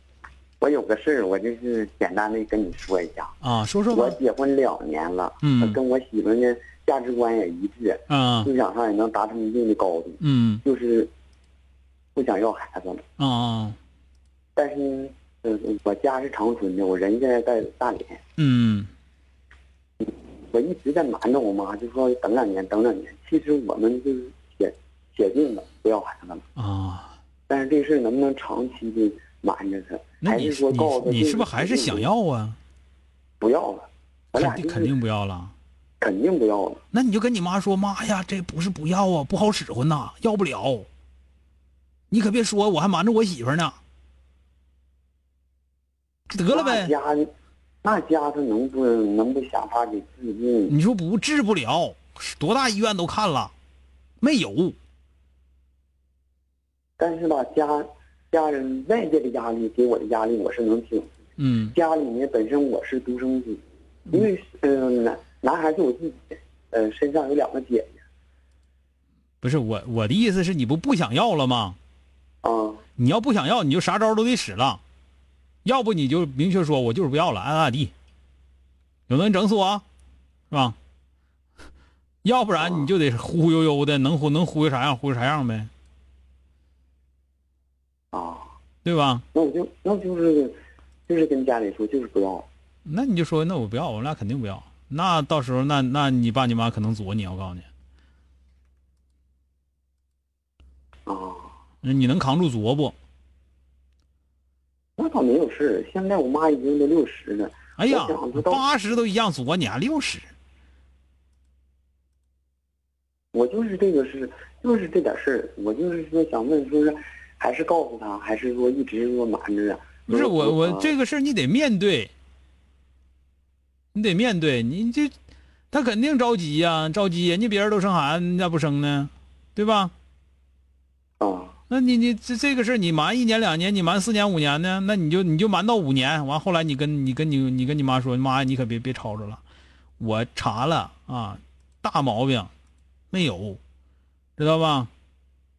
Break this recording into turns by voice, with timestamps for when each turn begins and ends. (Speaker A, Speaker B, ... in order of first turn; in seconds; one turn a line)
Speaker A: 0.6-3.3
Speaker B: 3.4-4.2
Speaker A: 3.9-11.1
Speaker B: 5.4-5.8
Speaker B: 8.1-8.5
Speaker B: 10.2-10.6
Speaker A: 12.2-13.0
Speaker B: 13.2-13.8
Speaker A: 14.6-18.2
Speaker B: 18.4-18.9
Speaker A: 20.0-26.4
Speaker B: 26.6-27.1
Speaker A: 27.5-32.1
Speaker B: 30.2-32.6
Speaker A: 33.4-35.0
Speaker B: 34.4-35.5
Speaker A: 36.0-36.8
Speaker B: 36.9-40.9
Speaker B: 42.1-43.8
Speaker B: 46.3-46.9
Speaker A: 46.5-47.3
Speaker A: 47.8-50.8
Speaker B: 50.7-53.5
Speaker B: 54.2-54.8
Speaker A: 57.0-61.1
Speaker B: 61.4-61.8
Speaker A: 61.7-63.6
Speaker A: 64.1-67.9
Speaker B: 69.4-71.8
Speaker A: 72.4-72.8
Speaker B: 73.0-74.8
Speaker B: 75.7-77.9
Speaker B: 79.1-79.8
Speaker B: 80.5-80.8
Speaker B: 82.2-85.7
Speaker A: 82.6-82.9
Speaker A: 88.1-88.5
Speaker B: 88.8-89.2
Speaker A: 89.3-90.6
Speaker A: 91.1-92.5
Speaker B: 92.9-97.7
Speaker A: 101.1-101.5
Speaker B: 101.8-103.0
Speaker A: 105.0-108.6
Speaker B: 107.8-110.3
Speaker A: 113.3-121.0
Speaker B: 120.1-122.1
Speaker B: 123.9-125.1
Speaker B: 125.7-129.9
Speaker A: 131.2-131.6
Speaker B: 131.7-139.4
Speaker B: 140.0-142.5
Speaker B: 143.1-143.6
Speaker B: 144.4-144.9